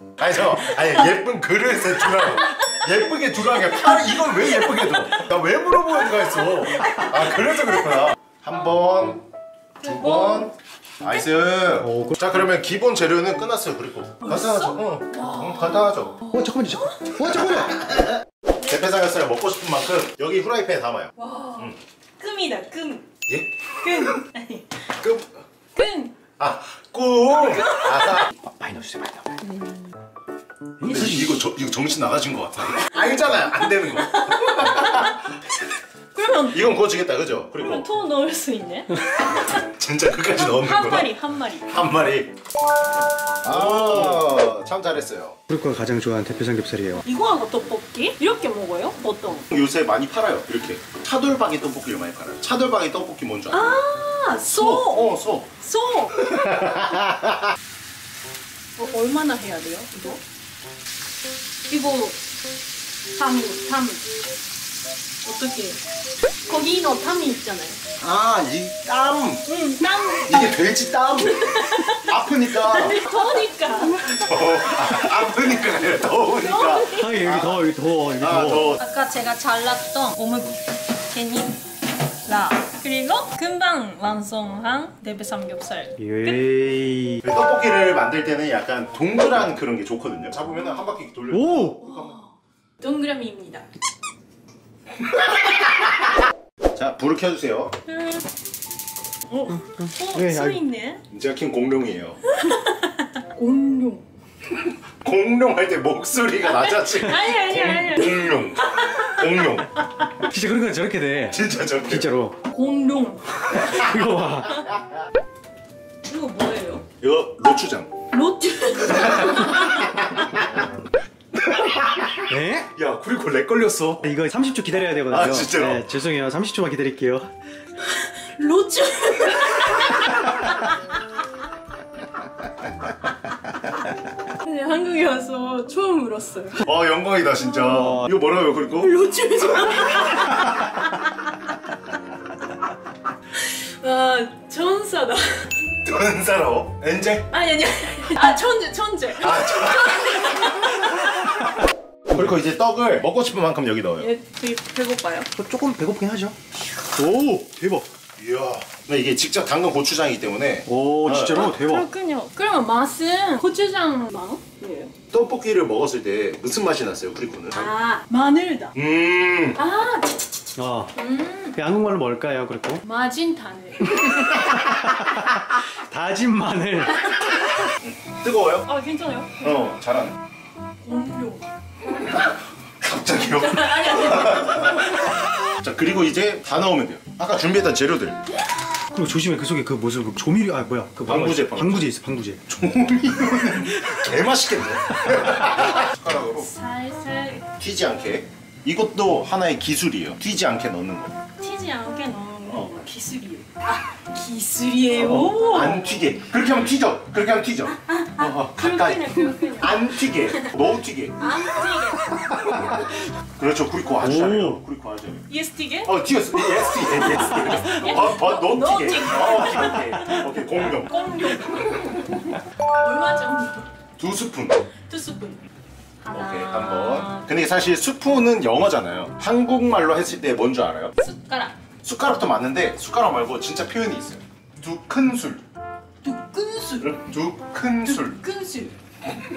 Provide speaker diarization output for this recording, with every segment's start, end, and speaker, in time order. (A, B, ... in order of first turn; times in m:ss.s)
0:00.2-0:09.2 A
0:00.5-0:01.1 B
0:02.0-0:02.6 B
0:03.8-0:04.0 B
0:04.6-0:05.1 B
0:06.8-0:07.3 B
0:09.8-0:16.2 A
0:09.8-0:10.5 B
0:11.8-0:12.2 C
0:14.2-0:16.7 B
0:16.3-0:17.9 C
0:17.3-0:21.8 A
0:21.2-0:23.1 B
0:23.3-0:24.1 A
0:23.8-0:24.8 B
0:25.0-0:25.2 A
0:25.8-0:26.2 B
0:26.4-0:28.3 A
0:27.3-0:28.3 B
0:28.3-0:29.4 C
0:29.4-0:30.0 B
0:30.8-0:31.4 C
0:30.8-0:35.1 A
0:34.0-0:35.2 B
0:36.1-0:36.7 B
0:36.5-0:37.9 A
0:37.6-0:39.4 B
0:39.6-0:41.1 A
0:40.3-0:41.7 B
0:41.6-0:42.3 A
0:43.4-0:45.4 A
0:43.7-0:44.2 C
0:45.5-0:47.0 C
0:47.0-0:49.4 B
0:49.5-0:53.8 A
0:53.5-0:56.2 B
0:54.5-0:55.5 A
0:56.1-0:57.5 A
0:58.8-1:00.2 B
1:01.7-1:02.2 B
1:03.2-1:04.0 B
1:05.2-1:05.8 B
1:06.5-1:07.8 B
1:08.0-1:09.4 A
1:09.4-1:10.6 B
1:10.2-1:13.0 A
1:11.3-1:14.1 B
1:14.0-1:17.6 A
1:16.3-1:17.2 B
1:17.0-1:18.7 C
1:18.2-1:18.8 A
1:18.8-1:21.6 B
1:22.2-1:26.4 B
1:26.0-1:27.2 C
1:27.2-1:32.2 A
1:31.3-1:31.8 C
1:31.8-1:33.6 B
1:36.7-1:37.7 A
1:37.9-1:38.2 B
1:39.3-1:41.0 B
1:39.5-1:40.6 C
1:41.1-1:42.2 A
1:42.3-1:44.0 B
1:44.9-1:49.8 A
1:46.4-1:49.1 B
1:50.2-1:52.4 C
1:51.3-1:52.1 A
1:52.5-1:53.8 B
1:53.6-1:54.6 C
1:56.0-1:56.8 B
1:57.0-1:57.9 A
1:58.1-2:00.0 B
2:00.0-2:00.3 A
2:01.4-2:04.0 A
2:02.3-2:02.7 C
2:04.0-2:07.3 C
2:05.1-2:05.9 A
2:07.9-2:10.3 B
2:14.4-2:16.6 B
2:16.6-2:18.9 A
2:18.8-2:20.9 B
2:23.4-2:25.6 B
2:25.8-2:27.3 A
2:27.3-2:31.0 B
2:29.2-2:30.1 A
2:32.1-2:34.1 A
2:34.0-2:35.3 B
2:35.4-2:36.4 C
2:36.9-2:37.8 C
2:38.2-2:41.5 A
2:40.6-2:41.9 C
2:41.3-2:44.9 B
2:45.1-2:47.7 A
2:47.5-2:48.7 B
2:48.7-2:49.6 A
2:49.6-2:51.6 B
2:50.6-2:50.9 C
2:51.5-2:52.8 C
2:52.8-2:54.3 B
2:53.9-2:57.0 C
2:57.0-2:57.6 B
2:58.0-2:58.7 A
2:58.6-2:59.5 B
2:59.4-3:00.2 A
3:00.8-3:02.2 B
3:02.8-3:08.2 A
3:03.3-3:05.0 B
3:08.9-3:12.4 C
3:11.1-3:11.9 A
3:12.5-3:16.5 A
3:16.3-3:17.4 B
3:17.3-3:21.2 A
3:21.4-3:26.0 B
3:24.9-3:31.2 A
3:28.0-3:30.5 B
3:31.2-3:32.9 B
3:33.4-3:35.2 A
3:34.0-3:34.6 C
3:35.3-3:35.9 B
3:35.8-3:40.9 A
3:36.7-3:40.2 B
3:40.8-3:43.7 B
3:44.0-3:44.6 A
3:44.9-3:45.4 B
3:46.0-3:47.3 B
3:46.1-3:50.9 A
3:51.0-3:51.6 B
3:51.8-3:55.4 A
3:56.0-3:57.0 B
3:56.8-3:58.2 A
3:57.8-3:58.7 B